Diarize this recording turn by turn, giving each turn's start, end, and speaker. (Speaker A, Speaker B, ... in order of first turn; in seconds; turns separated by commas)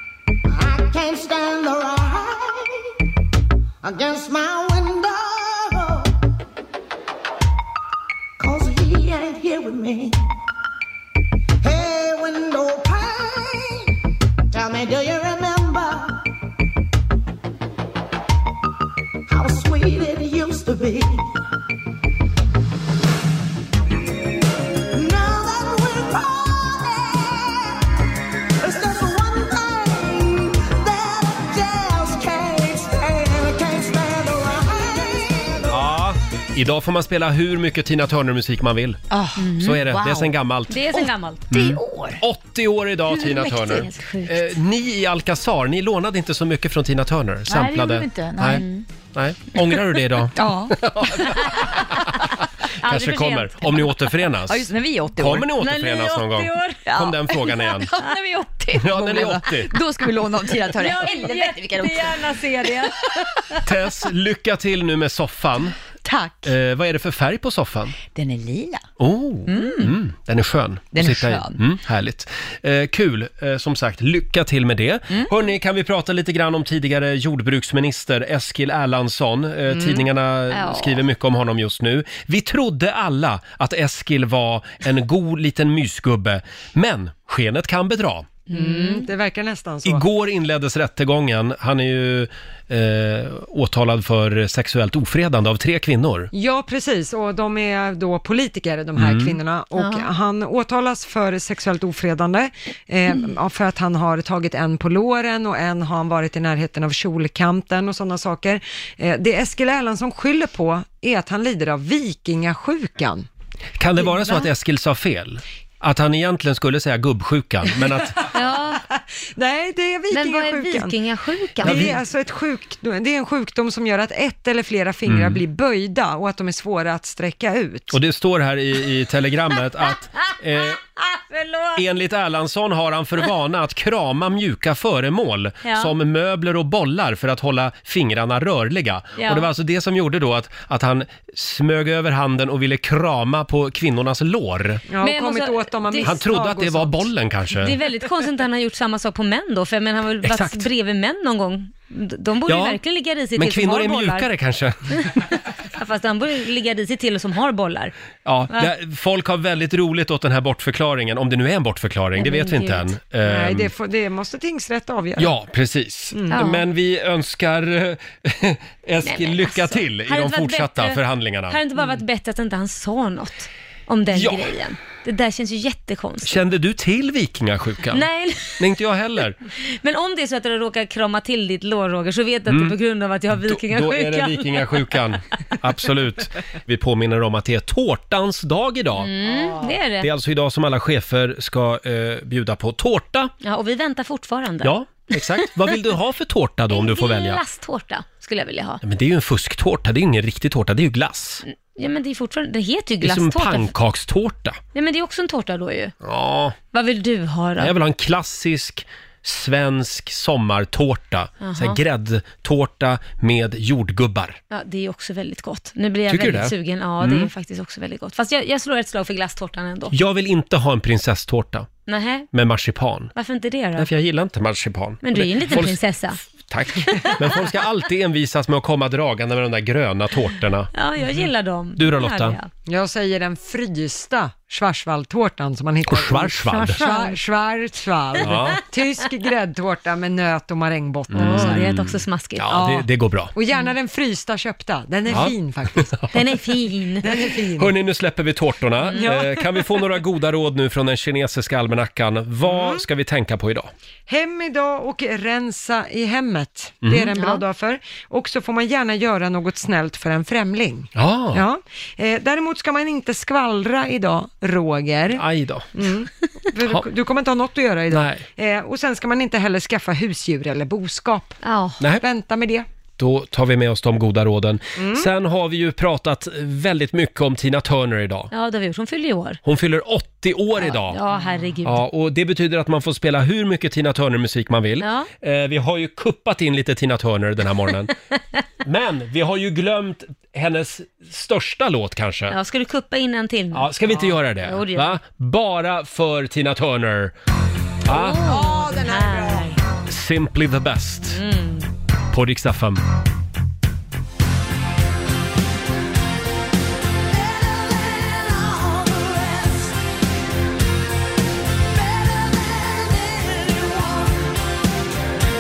Speaker A: 0.5-2.9, Speaker A: 3.8-6.2, Speaker A: 8.4-10.3, Speaker A: 11.6-13.9, Speaker A: 14.5-16.3, Speaker A: 19.3-21.4, Speaker A: 24.9-27.9, Speaker A: 28.6-35.9, Speaker B: 35.7-39.0, Speaker C: 39.1-40.3, Speaker D: 39.4-39.8, Speaker B: 39.5-40.8, Speaker D: 40.7-41.5, Speaker C: 40.9-42.2, Speaker B: 41.5-58.0, Speaker D: 43.1-44.6, Speaker C: 47.5-48.9, Speaker C: 50.3-51.4, Speaker D: 51.3-51.6, Speaker D: 52.8-53.9, Speaker C: 54.5-55.5, Speaker D: 55.5-56.9, Speaker C: 56.9-63.1, Speaker B: 58.7-59.8, Speaker D: 60.6-63.6, Speaker B: 63.6-65.8, Speaker C: 66.0-66.5, Speaker B: 66.4-68.0, Speaker C: 68.0-68.8, Speaker B: 69.0-88.3, Speaker C: 69.5-70.0, Speaker C: 70.9-71.6, Speaker D: 80.5-81.0, Speaker D: 88.5-89.1, Speaker E: 88.5-90.0, Speaker B: 89.8-96.3, Speaker E: 96.3-113.3, Speaker B: 99.0-99.4, Speaker D: 99.8-100.1, Speaker B: 113.8-118.3, Speaker D: 118.3-118.8, Speaker E: 118.9-120.9, Speaker D: 120.1-122.0, Speaker E: 121.6-128.0, Speaker B: 121.6-122.0, Speaker B: 125.1-125.4, Speaker B: 127.9-130.8, Speaker D: 131.0-131.8, Speaker B: 131.8-144.8, Speaker D: 135.6-135.9, Speaker D: 139.2-139.5, Speaker E: 144.9-147.1, Speaker D: 145.0-146.1, Speaker B: 146.0-147.8, Speaker D: 147.6-154.3, Speaker B: 150.2-150.7, Speaker B: 152.5-152.8, Speaker B: 153.3-155.2, Speaker D: 155.7-157.9, Speaker B: 158.2-163.7, Speaker D: 162.2-162.9, Speaker E: 163.2-165.3, Speaker B: 165.2-171.6, Speaker E: 166.1-166.5, Speaker D: 166.3-166.6, Speaker D: 169.1-176.4, Speaker B: 174.1-174.5, Speaker B: 176.2-178.1, Speaker D: 177.9-178.6, Speaker B: 178.6-179.4, Speaker D: 179.6-185.0, Speaker B: 182.5-182.8, Speaker B: 183.3-189.1, Speaker D: 189.0-190.1, Speaker B: 190.0-193.3, Speaker D: 193.4-194.7, Speaker B: 194.6-197.4, Speaker D: 195.4-195.8, Speaker D: 196.7-198.8, Speaker B: 198.8-201.4, Speaker D: 201.7-203.7, Speaker B: 203.0-204.6, Speaker D: 204.7-205.9, Speaker B: 206.0-206.6, Speaker D: 206.7-207.8, Speaker B: 207.6-214.4, Speaker D: 211.4-211.8, Speaker D: 214.5-219.9, Speaker B: 216.1-217.3, Speaker B: 219.9-221.7, Speaker D: 221.9-222.3, Speaker B: 222.3-223.1, Speaker D: 223.2-223.9, Speaker B: 223.8-225.8, Speaker D: 225.0-226.2, Speaker B: 226.5-230.7, Speaker D: 227.0-227.5, Speaker D: 230.7-232.5, Speaker B: 231.8-232.4, Speaker E: 232.7-241.6, Speaker B: 235.9-236.9, Speaker D: 236.8-237.1, Speaker B: 238.2-238.6, Speaker B: 241.1-243.3, Speaker D: 241.2-242.4, Speaker E: 242.5-246.0, Speaker B: 245.1-246.1, Speaker D: 246.1-247.2, Speaker E: 247.0-247.7, Speaker B: 247.6-253.7, Speaker E: 249.0-249.8, Speaker E: 252.4-252.8, Speaker E: 254.1-271.4, Speaker B: 256.8-257.1, Speaker D: 257.1-257.4, Speaker B: 260.9-261.4, Speaker B: 265.1-265.7, Speaker B: 267.9-268.2, Speaker D: 271.4-271.8, Speaker B: 271.8-272.1, Speaker E: 272.0-272.7, Speaker B: 273.0-278.3, Speaker E: 274.8-275.1, Speaker D: 278.3-279.4, Speaker B: 279.4-281.0, Speaker D: 280.6-281.8, Speaker B: 281.6-287.9, Speaker D: 284.8-285.1, Speaker B: 288.6-292.4, Speaker D: 292.3-295.0, Speaker B: 293.5-297.1, Speaker B: 297.9-298.2, Speaker D: 297.9-299.6, Speaker E: 298.2-299.6, Speaker B: 299.9-301.2, Speaker D: 301.1-301.7, Speaker B: 302.1-302.8, Speaker A: 307.1-309.9, Speaker A: 311.7-314.6